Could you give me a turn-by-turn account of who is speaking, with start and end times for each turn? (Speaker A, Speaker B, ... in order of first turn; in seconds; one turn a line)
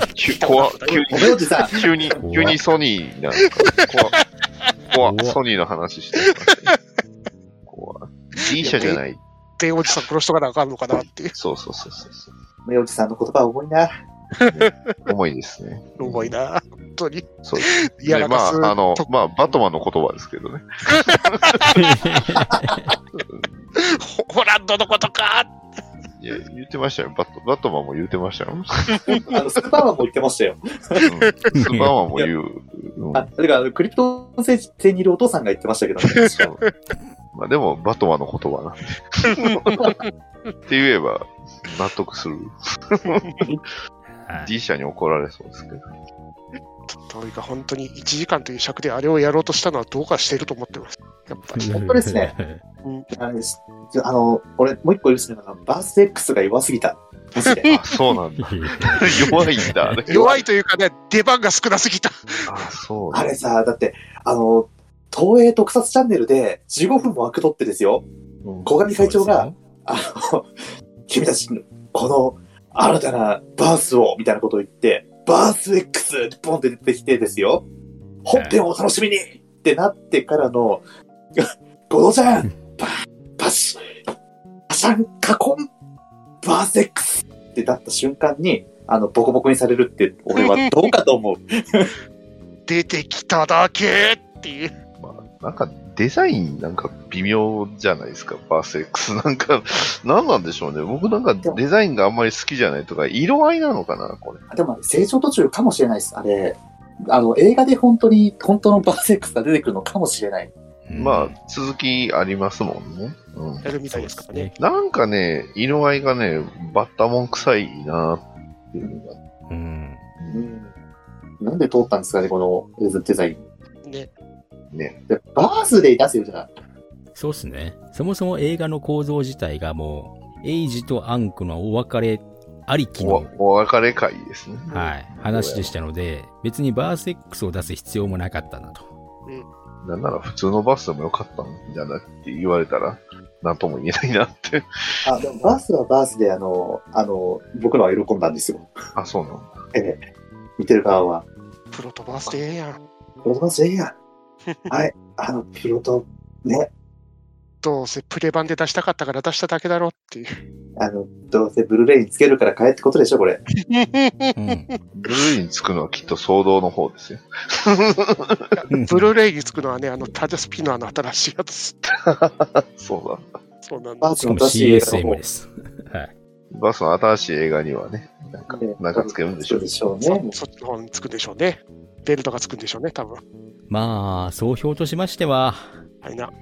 Speaker A: 0.1-4.2
Speaker B: 0.4-1.9
Speaker C: 1.1-1.7
Speaker D: 2.2-2.6
Speaker A: 4.9-6.8
Speaker D: 5.0-5.4
Speaker A: 7.7-9.2
Speaker B: 8.6-9.0
Speaker B: 9.6-11.3
Speaker A: 11.3-12.3
Speaker C: 12.7-13.9
Speaker B: 14.4-14.9
Speaker A: 14.5-16.4
Speaker B: 16.0-19.1
Speaker A: 17.4-21.7
Speaker B: 20.9-22.0
Speaker D: 21.8-22.8
Speaker A: 23.1-23.7
Speaker B: 23.8-25.6
Speaker A: 26.2-29.2
Speaker B: 28.9-29.3
Speaker C: 29.3-31.1
Speaker A: 31.0-33.3
Speaker B: 31.0-31.5
Speaker D: 31.5-31.9
Speaker C: 33.1-36.5
Speaker A: 36.3-36.6
Speaker A: 37.3-39.9
Speaker B: 39.3-40.0
Speaker A: 40.7-43.3
Speaker B: 43.2-43.5
Speaker D: 44.1-44.5
Speaker A: 44.4-45.8
Speaker B: 46.9-51.7
Speaker D: 51.5-52.6
Speaker C: 51.7-52.3
Speaker C: 53.1-57.7
Speaker B: 57.4-57.8
Speaker A: 57.7-60.4
Speaker D: 58.4-60.0
Speaker C: 60.1-60.4
Speaker B: 60.1-62.2
Speaker A: 62.5-63.3
Speaker C: 63.1-68.0
Speaker A: 68.4-68.7
Speaker C: 68.7-70.5
Speaker D: 69.0-69.5
Speaker C: 71.1-77.7
Speaker C: 78.2-80.8
Speaker D: 78.3-78.6
Speaker C: 81.4-84.0
Speaker C: 84.7-85.7
Speaker C: 86.4-91.9
Speaker B: 90.4-90.6
Speaker B: 92.7-94.7
Speaker A: 95.0-104.4
Speaker C: 104.5-110.5
Speaker D: 110.9-111.4
Speaker A: 111.0-113.7
Speaker B: 113.6-114.5
Speaker D: 113.9-114.6
Speaker A: 114.6-119.2
Speaker D: 119.5-120.0
Speaker C: 120.3-120.7
Speaker C: 121.4-123.4
Speaker B: 123.8-124.1
Speaker A: 124.7-125.0
Speaker C: 125.1-126.5
Speaker D: 127.2-133.3
Speaker A: 133.0-135.7
Speaker D: 134.7-138.9
Speaker A: 139.8-144.7
Speaker C: 145.0-148.7
Speaker A: 149.0-149.5
Speaker C: 149.7-150.0
Speaker C: 150.6-151.2
Speaker B: 151.7-152.8
Speaker C: 153.2-153.9
Speaker C: 154.7-156.7
Speaker B: 157.6-160.3
Speaker C: 160.8-163.4
Speaker B: 163.7-164.7
Speaker D: 164.4-164.7
Speaker A: 165.0-168.5
Speaker B: 168.6-171.8
Speaker D: 168.7-169.1
Speaker A: 171.9-173.3
Speaker B: 173.6-174.1
Speaker C: 174.0-175.2
Speaker D: 174.2-176.1
Speaker A: 176.5-179.7
Speaker C: 178.5-180.3
Speaker B: 180.0-183.2
Speaker D: 183.7-185.7
Speaker B: 186.0-186.3